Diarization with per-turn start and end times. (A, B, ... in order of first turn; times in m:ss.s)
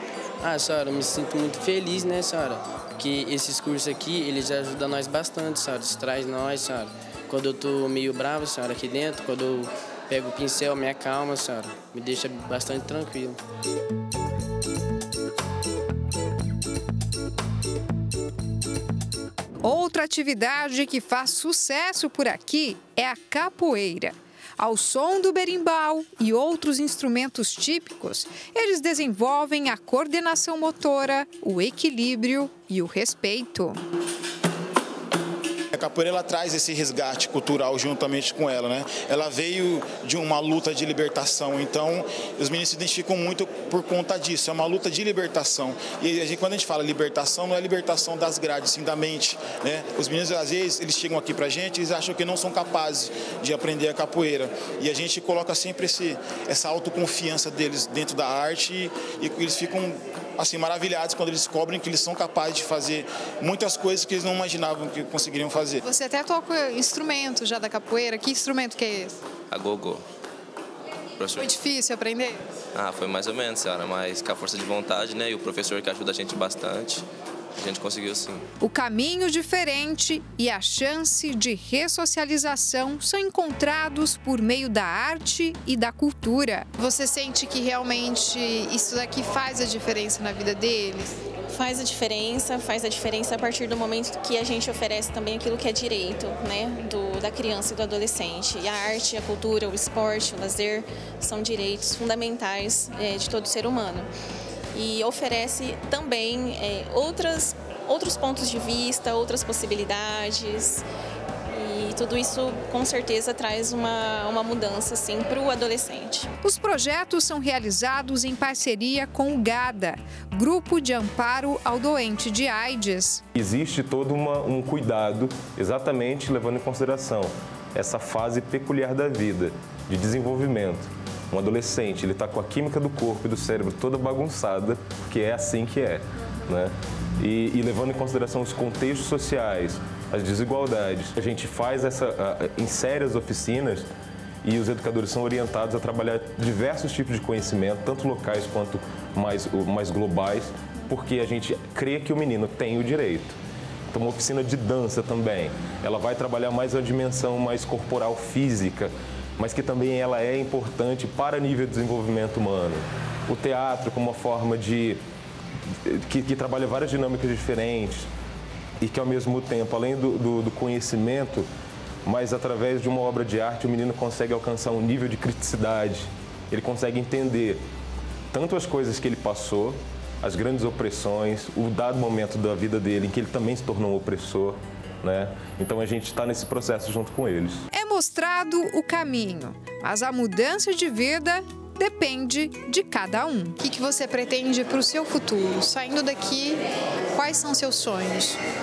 0:00.4-0:13.4 A
0:19.6-0:33.8 B
0:35.7-1:05.8 C
1:05.8-1:09.2 B
1:09.5-1:10.0 D
1:11.2-1:11.5 D
1:11.4-1:12.4 B
1:12.7-1:17.0 D
1:17.6-1:18.4 D
1:18.6-1:31.2 B
1:31.5-1:44.1 E
1:44.7-1:50.9 E
1:51.5-1:56.3 E
1:56.4-2:03.2 B
2:03.4-2:23.9 F
2:24.4-2:33.4 F
2:33.9-2:45.0 F
2:45.8-2:48.1 F
2:48.8-2:51.5 F
2:52.0-2:57.6 F
2:58.3-3:07.6 F
3:07.7-3:16.6 B
3:17.1-3:18.4 B